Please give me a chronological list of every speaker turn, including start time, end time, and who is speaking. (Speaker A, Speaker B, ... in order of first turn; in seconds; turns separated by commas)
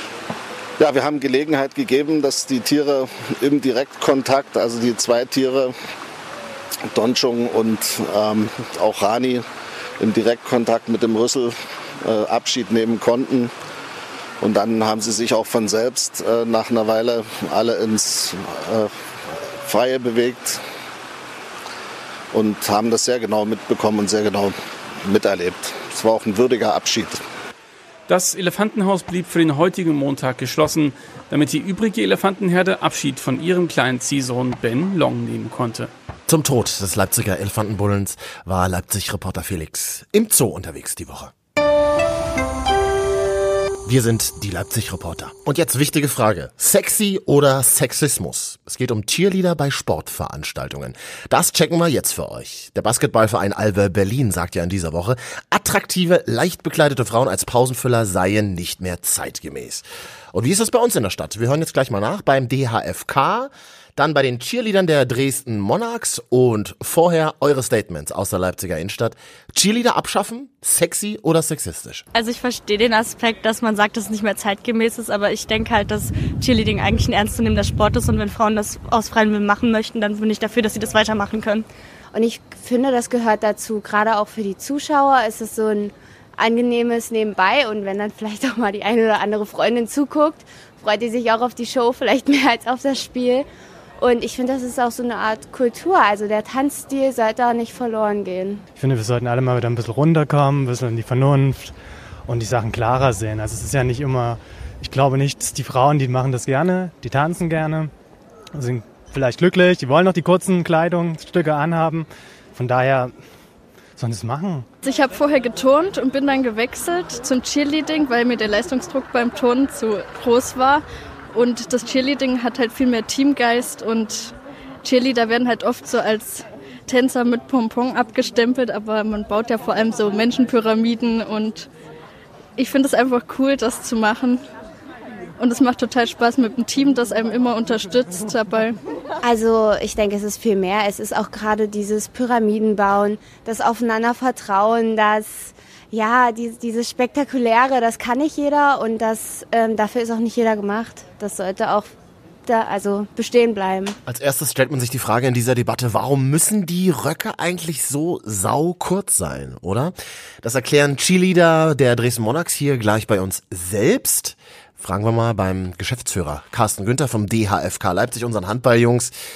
Speaker A: 0.8-5.7, Speaker A: 6.9-9.4, Speaker A: 10.0-13.5, Speaker A: 14.4-18.9, Speaker A: 19.6-20.6, Speaker A: 22.3-24.5, Speaker A: 25.0-27.2, Speaker B: 28.1-35.9, Speaker C: 36.3-41.3, Speaker C: 43.9-72.0, Speaker D: 72.1-81.7, Speaker E: 82.1-93.5, Speaker E: 94.0-98.6, Speaker F: 98.8-101.8, Speaker F: 102.2-107.9, Speaker F: 108.5-113.1, Speaker F: 114.0-114.7, Speaker G: 114.8-120.8, Speaker G: 121.3-124.3, Speaker G: 124.8-131.6, Speaker G: 132.6-134.3, Speaker G: 135.4-138.7, Speaker E: 139.2-151.9, Speaker E: 152.5-154.0, Speaker C: 154.1-169.1